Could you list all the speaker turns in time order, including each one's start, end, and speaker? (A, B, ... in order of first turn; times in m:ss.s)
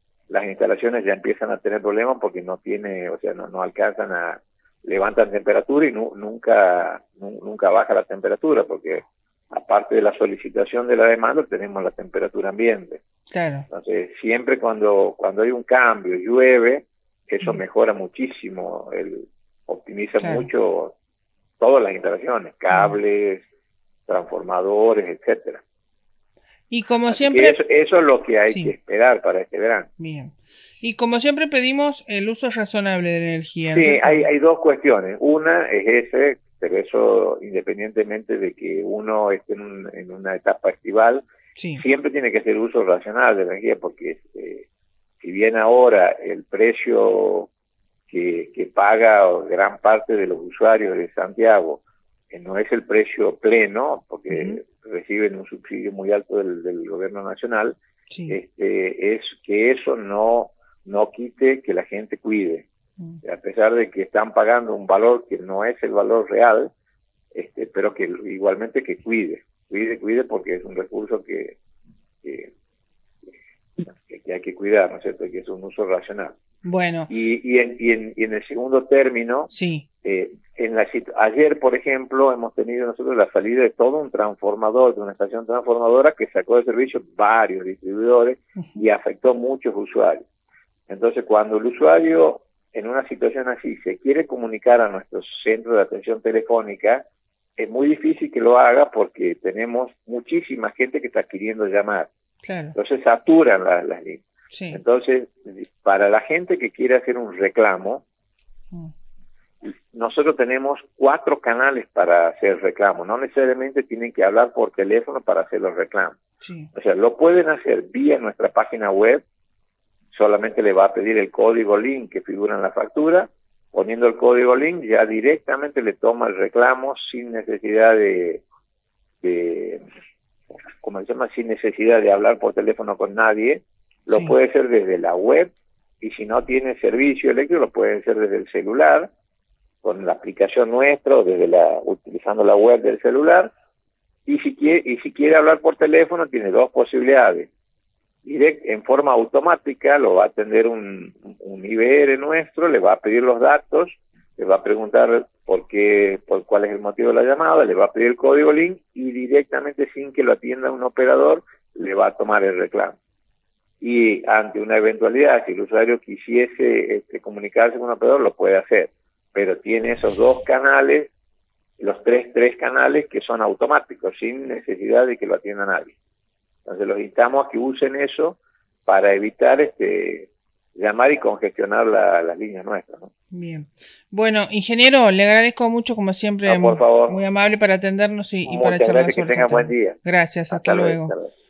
0:00.3-0:13.0 A
0:13.3-0:13.7 B
0:13.7-0:20.9 A
0:20.2-0:20.4 B
0:21.6-0:23.5 A
0:24.1-0:25.6 A
0:26.7-0:27.6 B
0:27.1-0:29.9 A
0:30.0-0:34.2 B
0:33.6-0:41.2 A
0:41.6-0:41.8 B
0:41.8-0:44.6 A
0:45.2-0:47.5 A
0:48.1-0:57.8 A
0:54.3-0:54.6 B
0:58.1-0:58.4 B
0:58.3-1:02.7 A
1:03.2-1:06.7 A
1:07.3-1:11.6 A
1:12.2-1:12.5 A
1:13.8-1:16.4 A
1:16.6-1:17.1 B
1:17.1-1:19.5 A
1:19.5-1:19.8 B
1:20.0-1:30.2 A
1:30.9-1:37.0 A
1:37.6-1:42.1 A
1:42.4-1:42.8 B
1:42.7-1:48.0 A
1:44.5-1:44.8 B
1:49.6-1:56.2 A
1:56.4-1:56.7 B
1:56.7-1:59.2 A
2:00.1-2:08.4 A
2:09.2-2:09.8 A
2:10.8-2:19.1 A
2:19.8-2:23.5 A
2:24.2-2:27.5 A
2:28.2-2:43.0 A
2:43.8-2:51.1 A
2:51.8-2:56.0 A
2:56.6-3:03.1 A
3:03.3-3:11.1 B
3:06.4-3:07.2 A
3:08.4-3:10.0 A
3:10.5-3:11.3 A